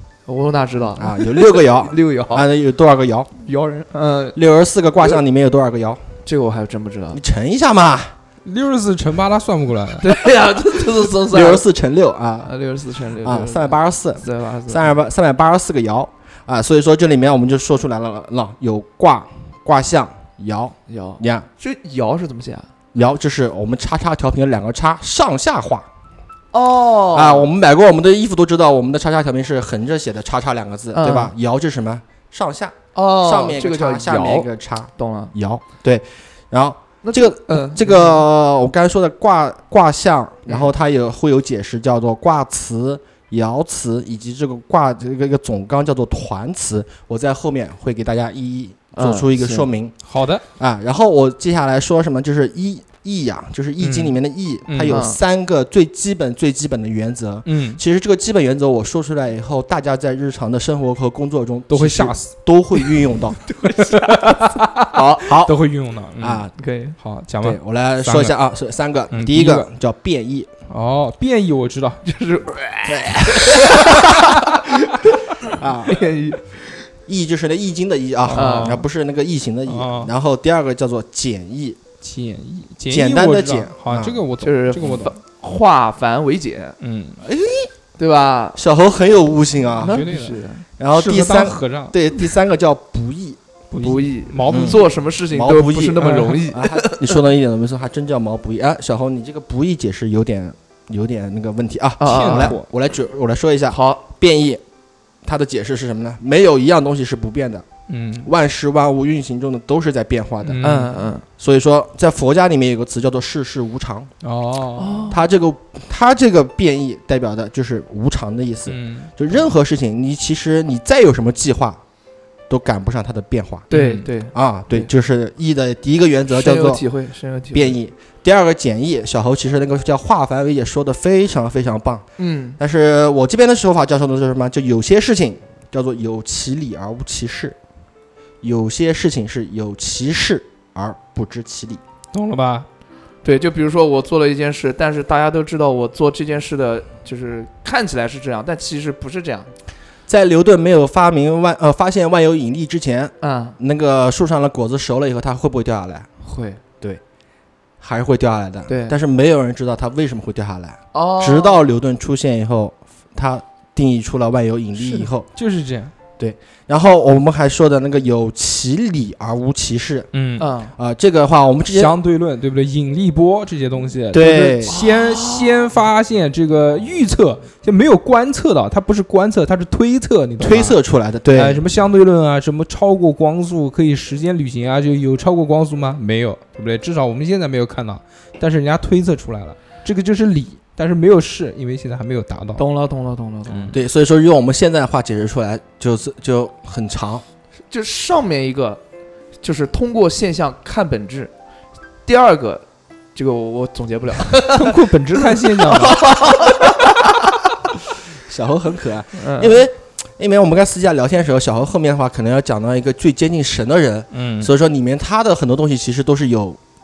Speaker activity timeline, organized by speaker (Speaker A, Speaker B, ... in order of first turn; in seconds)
Speaker A: 0.3-2.5, 3.4-4.4, 6.2-7.2, 10.0-11.6, 12.4-14.9, 20.9-22.7, 26.5-27.5, 30.9-31.3, 32.9-35.3, 37.0-38.2, 49.0-49.7, 54.9-55.2, 63.5-64.6, 66.6-67.0, 72.0-76.9, 78.3-78.8, 84.4-86.8, 88.0-88.6, 89.8-90.6, 93.8-97.2, 102.0-102.6, 103.7-104.0, 110.6-111.2, 114.8-115.2, 123.7-124.9, 126.3-127.8, 132.2-132.6, 143.2-149.5, 153.2-153.6, 156.2-156.6, 158.7-159.0, 160.9-161.6, 170.4-170.7, 174.7-175.7, 192.6-193.7, 197.7-198.8, 199.4-201.3, 202.1-207.3, 209.1-209.6
Speaker B: 1.0-3.3, 4.3-6.0, 7.1-8.1, 11.0-12.5, 13.2-21.4, 22.9-25.9, 27.1-49.9, 50.6-63.4, 64.9-65.6, 66.2-66.5, 67.4-70.5, 72.9-74.6, 75.5-76.1, 77.1-81.8, 82.9-84.2, 87.2-87.7, 88.5-90.0, 90.8-93.4, 94.5-104.6, 105.2-107.6, 108.2-110.6, 111.4-114.1, 115.1-121.8, 122.5-123.7, 124.3-126.8, 127.5-132.0, 132.6-137.6, 138.4-141.8, 150.1-156.1, 157.8-165.3, 166.2-170.1, 170.8-171.9, 174.1-174.7, 180.4-181.6, 193.7-197.2, 208.3-216.6
Speaker C: 8.4-10.1, 50.0-50.4, 53.8-54.1, 54.7-55.0, 57.5-57.8, 61.7-62.3, 63.8-68.4, 69.1-69.7, 70.7-72.0, 78.3-78.8, 79.7-80.1, 82.0-85.1, 86.8-87.2, 89.8-90.4, 90.9-92.0, 93.7-94.8, 96.0-96.4, 102.0-102.6, 107.9-108.3, 110.4-111.0, 114.2-115.1, 118.7-119.1, 123.7-124.1, 142.1-142.7, 165.3-165.9, 170.1-170.5, 171.7-180.8, 181.3-192.6, 193.5-193.8, 204.5-206.0, 214.1-214.5